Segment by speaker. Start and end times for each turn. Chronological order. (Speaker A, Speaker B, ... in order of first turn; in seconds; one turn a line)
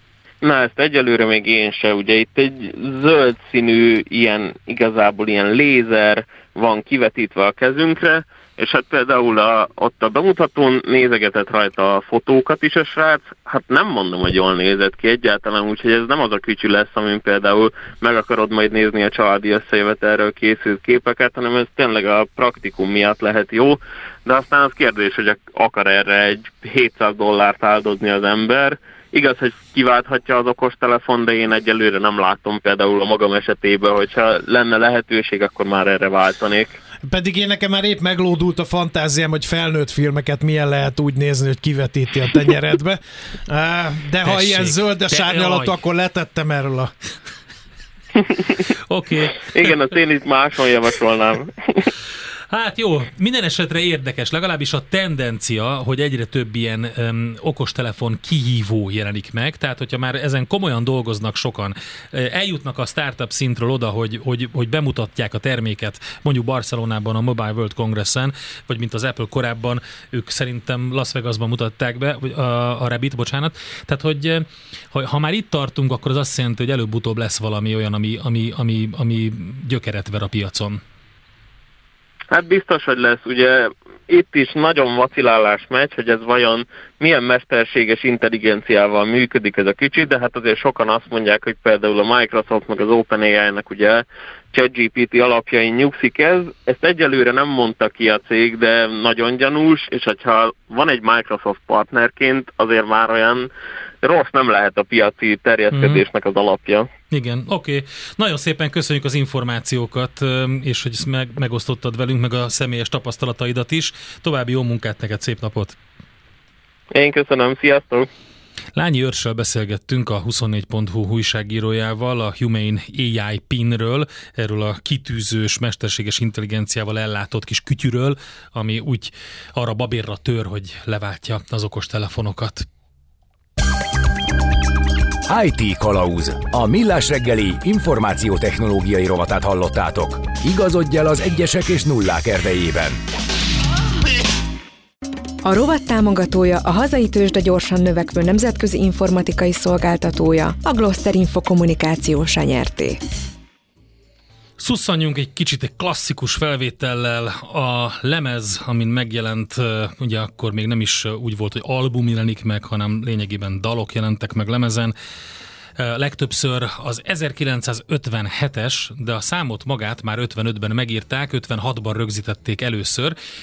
Speaker A: 0.4-36.8
Speaker B: 37.0-46.9
Speaker C: 44.2-45.8
Speaker C: 48.9-49.8
Speaker A: 49.5-51.9
Speaker C: 52.5-80.8
Speaker A: 82.3-103.5
Speaker A: 104.0-106.9
Speaker C: 105.7-106.0
Speaker C: 107.1-115.8
Speaker A: 116.9-118.1
Speaker C: 118.7-132.7
Speaker D: 135.3-143.0
Speaker E: 145.4-153.0
Speaker C: 154.6-164.9
Speaker C: 165.8-173.1